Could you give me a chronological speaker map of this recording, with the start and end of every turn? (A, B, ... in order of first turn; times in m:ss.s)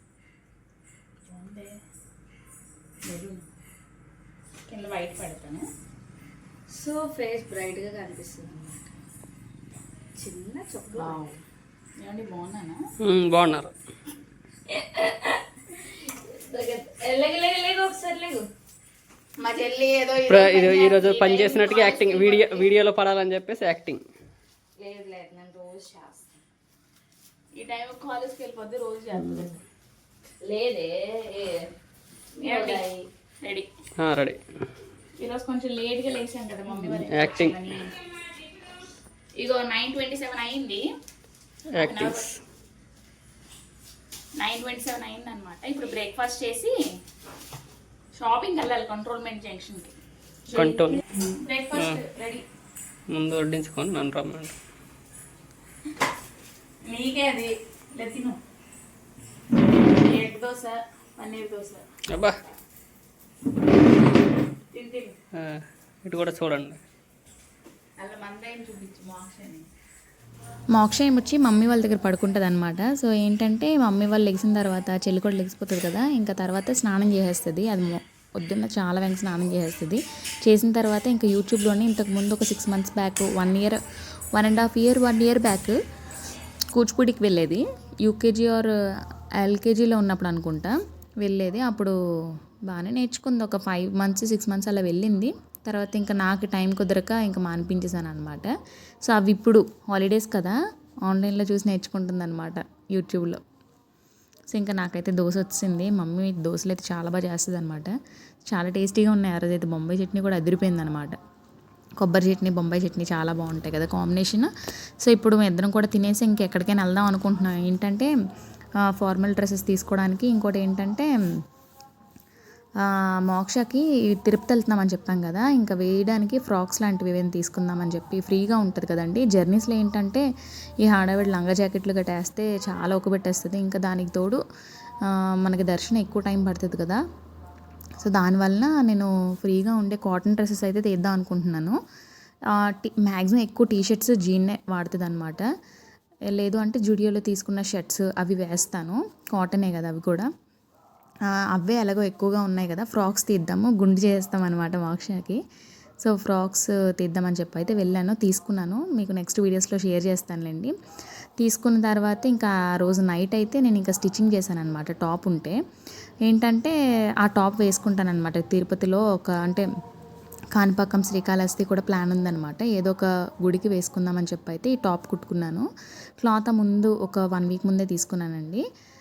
0:01.3-0:01.8 A
0:03.0-0:03.5 A
0:04.7-0:05.7 A
0:06.7-0:08.9 B
0:10.2-0:11.2 B
0:11.0-0:11.4 A
0:12.0-0:12.8 A
0:13.0-0:13.7 C
0:14.7-0:18.5 B
0:19.4-0:22.7 A
0:20.3-0:24.0 C
0:24.8-0:26.4 B
0:27.6-0:29.6 A
0:30.4-0:31.7 B
0:32.4-0:33.1 B
0:32.4-0:32.8 A
0:33.4-0:33.7 A
0:34.0-0:34.7 C
0:35.2-0:37.9 A
0:37.0-0:37.6 C
0:39.4-0:40.8 A
0:41.7-0:42.3 A
0:41.7-0:42.4 C
0:44.4-0:46.8 A
0:48.2-0:50.0 A
0:50.5-0:52.4 A
0:50.5-0:51.0 C
0:51.7-0:52.0 C
0:53.1-0:54.5 C
0:56.9-0:58.4 A
0:59.8-1:01.8 A
1:02.1-1:02.4 C
1:04.7-1:05.2 A
1:05.3-1:06.8 C
1:08.0-1:09.7 A
1:10.7-1:23.8 D
1:24.3-1:25.8 D
1:26.7-1:28.7 D
1:29.4-1:38.5 D
1:39.0-1:43.4 D
1:44.5-1:47.9 D
1:48.5-1:51.2 D
1:52.0-1:54.5 D
1:55.0-1:58.1 D
1:58.8-2:01.1 D
2:02.8-2:10.2 D
2:10.8-2:14.4 D
2:15.0-2:17.0 D
2:18.0-2:21.8 D
2:22.5-2:25.5 D
2:26.3-2:30.3 D
2:31.2-2:35.4 D
2:36.0-2:40.7 D
2:41.4-2:45.6 D
2:46.2-2:49.6 D
2:50.5-2:55.7 D
2:56.2-2:58.6 D